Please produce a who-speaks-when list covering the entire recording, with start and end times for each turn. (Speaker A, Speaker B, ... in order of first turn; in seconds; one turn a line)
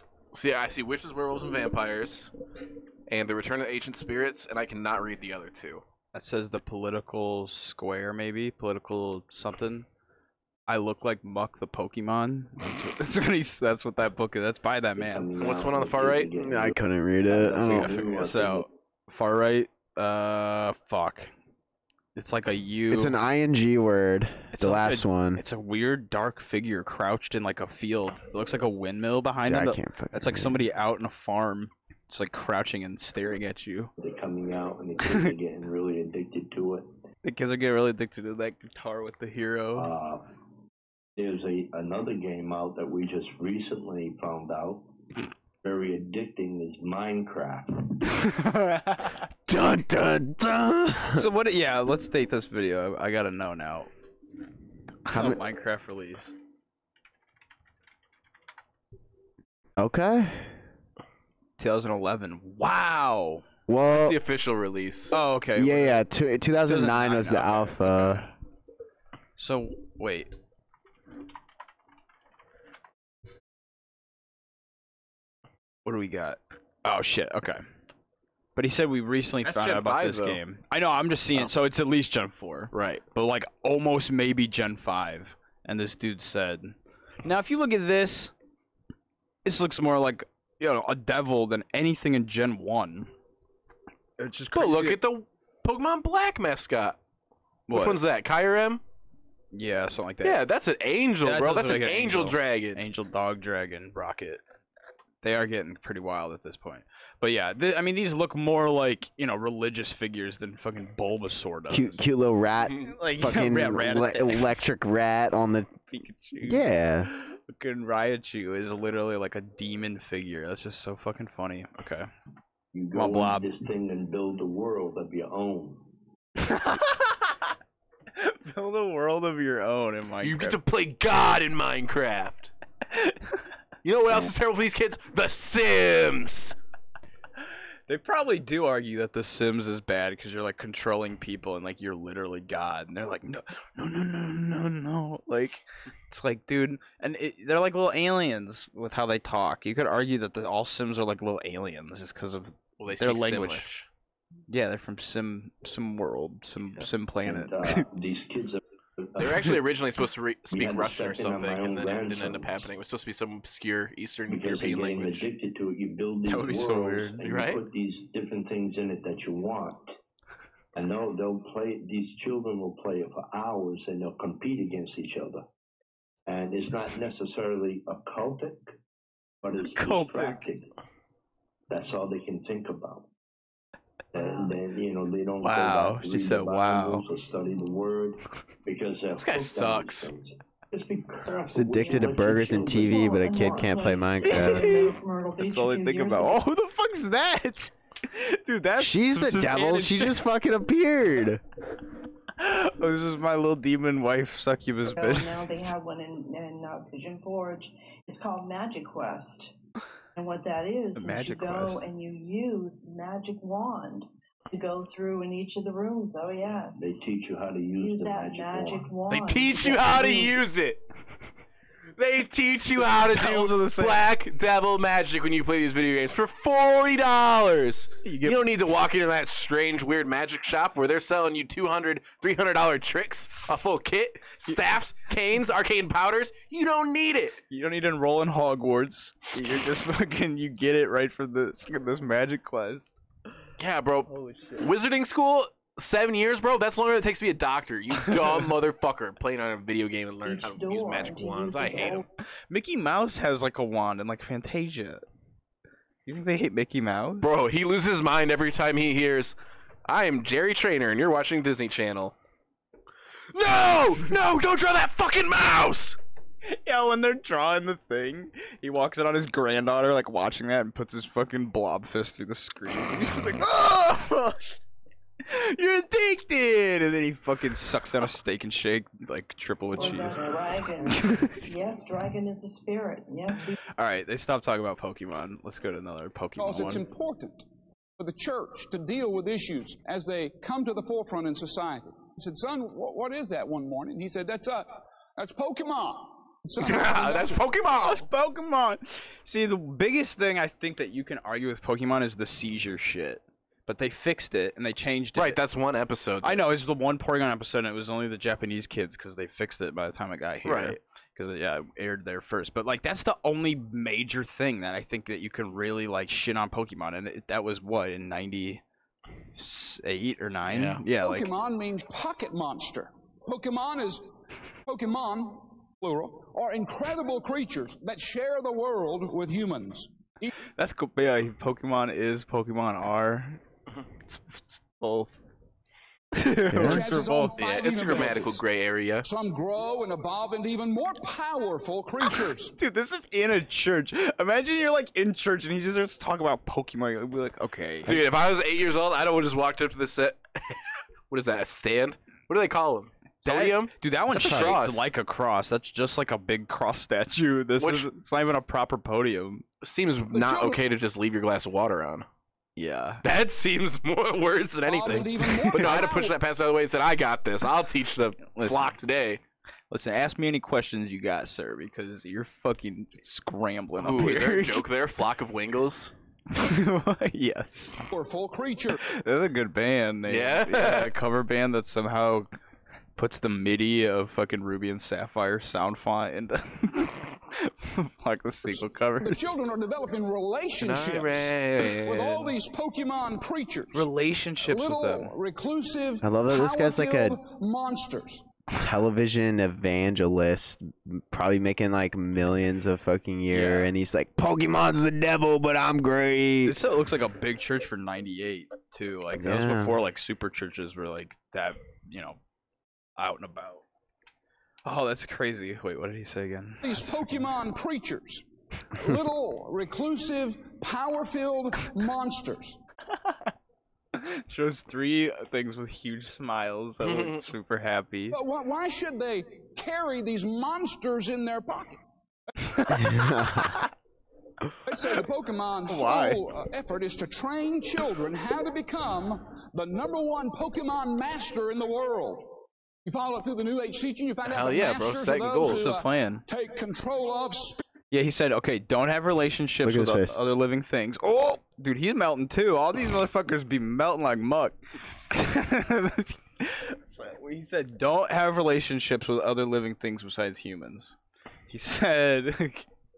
Speaker A: 0.3-2.3
Speaker A: 3.1-5.8
Speaker B: 6.1-9.9
Speaker B: 10.7-15.3
Speaker C: 15.0-18.7
Speaker A: 15.4-16.3
Speaker D: 16.3-18.1
Speaker B: 17.6-21.3
Speaker B: 22.1-23.1
Speaker D: 22.9-25.4
Speaker B: 24.5-33.9
Speaker D: 29.4-30.6
Speaker C: 34.0-36.9
Speaker B: 37.2-39.9
Speaker C: 39.7-40.3
Speaker C: 41.1-44.9
Speaker C: 45.6-48.0
Speaker B: 48.2-49.2
Speaker D: 49.5-51.2
Speaker B: 51.1-53.9
Speaker B: 55.0-56.3
Speaker D: 55.1-55.4
Speaker D: 59.8-60.6
Speaker B: 61.6-63.4
Speaker D: 63.7-64.2
Speaker A: 63.9-65.1
Speaker B: 65.1-66.0
Speaker D: 65.5-68.3
Speaker B: 66.6-68.3
Speaker B: 69.4-70.3
Speaker B: 75.8-77.6
Speaker B: 78.5-88.3
Speaker A: 79.4-80.4
Speaker A: 82.7-83.0
Speaker B: 89.4-93.1
Speaker B: 94.2-95.0
Speaker A: 94.5-97.0
Speaker B: 97.7-98.0
Speaker A: 97.7-98.8
Speaker B: 99.5-100.4
Speaker A: 100.2-102.8
Speaker B: 101.2-104.4
Speaker B: 105.2-112.0
Speaker D: 111.7-115.7
Speaker A: 112.6-112.9
Speaker B: 112.9-114.5
Speaker B: 115.9-122.1
Speaker D: 116.4-117.1
Speaker C: 122.7-125.9
Speaker B: 122.9-123.5
Speaker B: 126.4-127.5
Speaker B: 128.1-130.6
Speaker A: 130.2-132.5
Speaker B: 132.9-133.5
Speaker A: 133.8-136.5
Speaker B: 137.9-153.7
Speaker A: 152.8-153.9
Speaker B: 154.5-157.8
Speaker C: 157.2-159.6
Speaker A: 159.2-165.3
Speaker C: 160.5-162.7
Speaker C: 164.3-169.9
Speaker B: 166.2-167.2
Speaker A: 167.2-167.6
Speaker C: 170.7-175.4
Speaker C: 176.3-178.7
Speaker C: 179.4-180.7
Speaker B: 179.7-180.4
Speaker C: 181.7-183.1
Speaker C: 184.1-193.1
Speaker E: 184.2-184.6
Speaker B: 185.4-187.1
Speaker A: 189.2-190.1
Speaker D: 191.5-194.8
Speaker E: 192.6-196.4
Speaker B: 194.2-200.2
Speaker D: 198.8-201.4
Speaker B: 202.4-205.7
Speaker E: 204.9-209.5
Speaker E: 210.1-217.0
Speaker B: 210.9-211.8
Speaker C: 216.7-218.9
Speaker E: 217.8-220.4
Speaker A: 219.1-220.8
Speaker A: 222.0-237.4
Speaker B: 222.8-224.0
Speaker B: 228.0-228.4
Speaker B: 237.5-242.9
Speaker A: 243.6-252.0
Speaker B: 244.1-244.7
Speaker E: 250.2-252.1
Speaker B: 252.5-255.0
Speaker B: 256.1-257.3
Speaker A: 257.2-259.4
Speaker A: 259.9-262.1
Speaker A: 263.3-266.0
Speaker B: 266.4-274.6
Speaker B: 275.2-280.3
Speaker E: 279.7-283.6
Speaker B: 280.9-281.4
Speaker B: 283.8-286.8
Speaker F: 286.4-287.4
Speaker F: 288.0-297.4
Speaker A: 296.6-298.1
Speaker B: 297.8-305.4
Speaker A: 305.1-306.4
Speaker B: 306.2-318.6
Speaker A: 310.4-310.8
Speaker B: 319.3-321.3
Speaker A: 320.5-320.8
Speaker F: 320.9-324.0
Speaker F: 324.6-330.3
Speaker B: 330.6-333.4
Speaker B: 334.0-335.1
Speaker B: 336.1-337.4
Speaker D: 336.5-336.9
Speaker F: 336.6-338.4
Speaker A: 337.4-339.1
Speaker F: 339.0-342.5
Speaker B: 342.6-348.0
Speaker A: 347.9-350.5
Speaker A: 351.1-354.9
Speaker B: 353.2-359.4
Speaker A: 357.6-357.9
Speaker A: 359.6-362.1
Speaker F: 360.1-360.6
Speaker B: 362.6-363.0
Speaker A: 363.0-369.2
Speaker F: 364.6-366.2
Speaker B: 368.3-368.7
Speaker B: 369.7-374.6
Speaker A: 373.8-375.9
Speaker B: 376.3-377.8
Speaker F: 377.9-378.8
Speaker B: 378.8-382.3
Speaker A: 380.1-380.9
Speaker B: 382.9-389.4
Speaker F: 389.0-393.9
Speaker A: 390.6-392.4
Speaker B: 393.7-395.1
Speaker F: 394.4-398.2
Speaker D: 396.0-397.2
Speaker D: 398.6-406.6
Speaker B: 403.3-403.7
Speaker B: 406.4-412.2
Speaker D: 409.1-409.8
Speaker B: 413.0-413.6
Speaker B: 414.6-417.0
Speaker F: 416.6-422.6
Speaker B: 422.9-423.3
Speaker B: 423.9-428.2
Speaker A: 426.8-427.2
Speaker F: 428.1-431.8
Speaker B: 432.4-433.7
Speaker D: 432.7-433.5
Speaker F: 434.7-447.6
Speaker B: 435.7-436.2
Speaker A: 444.2-445.8
Speaker B: 445.4-446.2
Speaker B: 447.9-460.9
Speaker D: 449.6-450.2
Speaker B: 461.5-462.7